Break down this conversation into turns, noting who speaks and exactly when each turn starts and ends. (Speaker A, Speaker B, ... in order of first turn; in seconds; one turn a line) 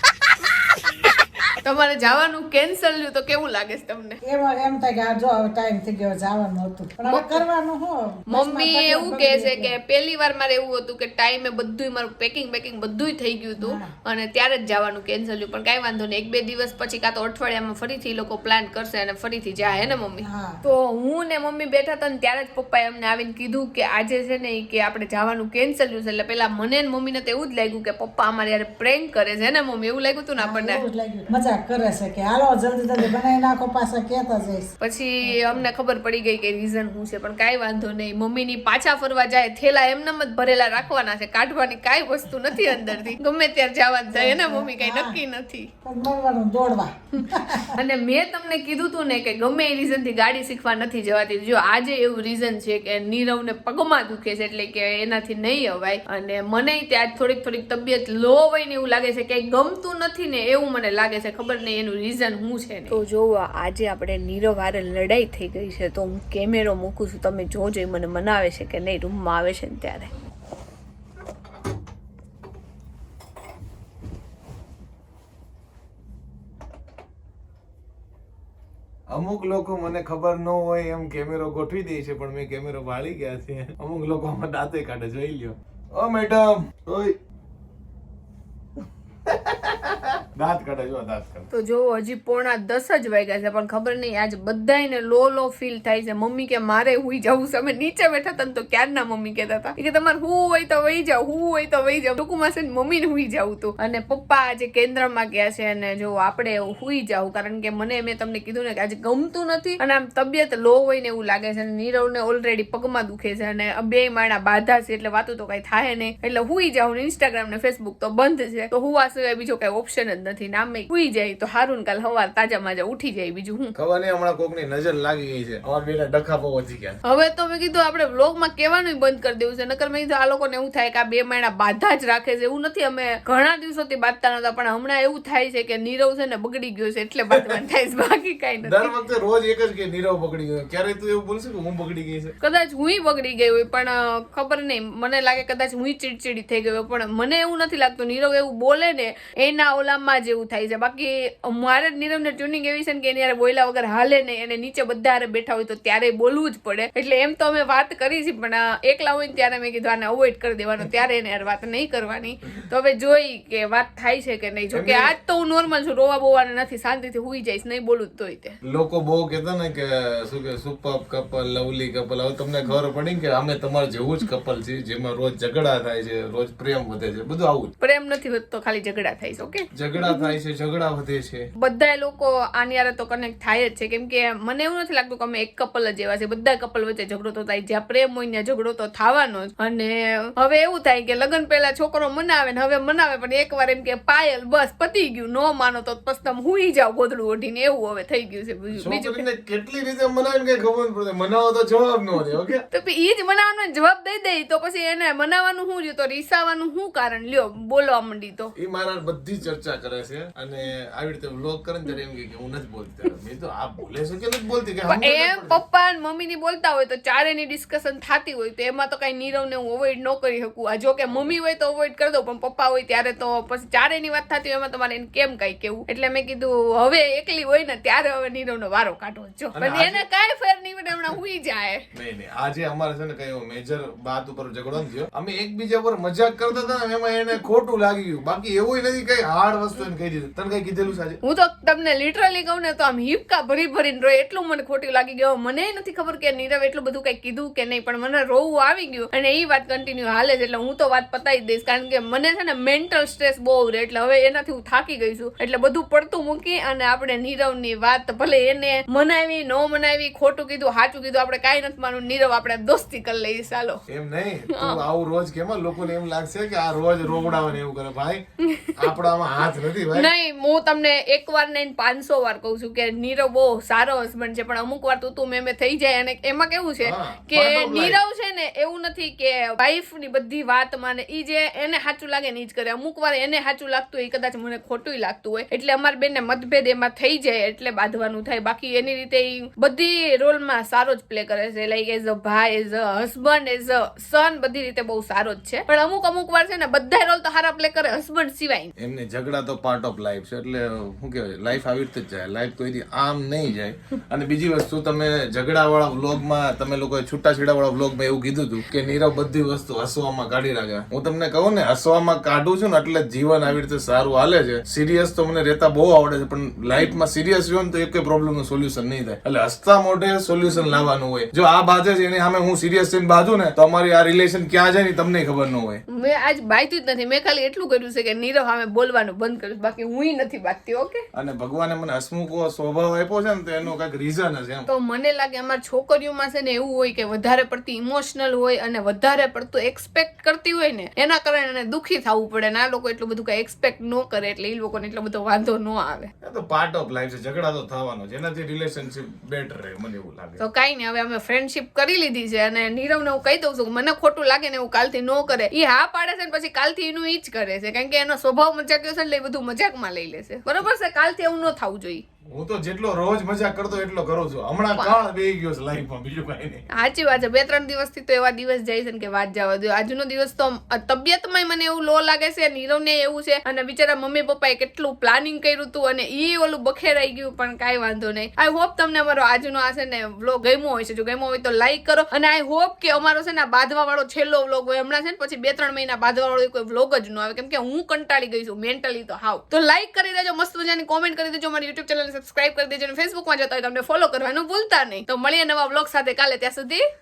Speaker A: 0.4-4.2
Speaker B: 4.2-9.7
Speaker A: 7.1-7.5
Speaker A: 8.3-30.8
Speaker B: 13.6-13.9
Speaker B: 20.2-20.6
Speaker B: 30.4-34.7
Speaker A: 34.8-45.7
Speaker B: 35.2-35.6
Speaker B: 42.5-42.9
Speaker B: 44.1-45.2
Speaker B: 45.8-47.7
Speaker A: 47.2-70.1
Speaker C: 79.1-87.1
Speaker C: 89.3-91.5
Speaker A: 91.5-123.7
Speaker C: 123.8-127.0
Speaker A: 127.0-138.9
Speaker C: 138.6-142.3
Speaker A: 142.4-168.6
Speaker C: 164.7-165.1
Speaker C: 168.6-177.7
Speaker A: 177.8-180.3
Speaker C: 179.7-181.5
Speaker A: 181.6-199.2
Speaker C: 198.8-202.6
Speaker A: 202.7-208.5
Speaker C: 208.6-215.6
Speaker A: 214.9-231.8
Speaker C: 229.5-230.0
Speaker C: 231.9-241.2
Speaker A: 241.2-263.8
Speaker C: 263.9-268.2
Speaker A: 264.5-264.8
Speaker A: 268.4-268.9
Speaker C: 268.8-270.1
Speaker A: 269.9-298.7
Speaker C: 276.8-278.0
Speaker C: 298.8-325.8
Speaker A: 325.9-331.0
Speaker C: 331.1-334.7
Speaker A: 334.7-346.1
Speaker C: 346.2-350.4
Speaker A: 350.4-362.0
Speaker C: 362.3-366.6
Speaker A: 366.7-396.8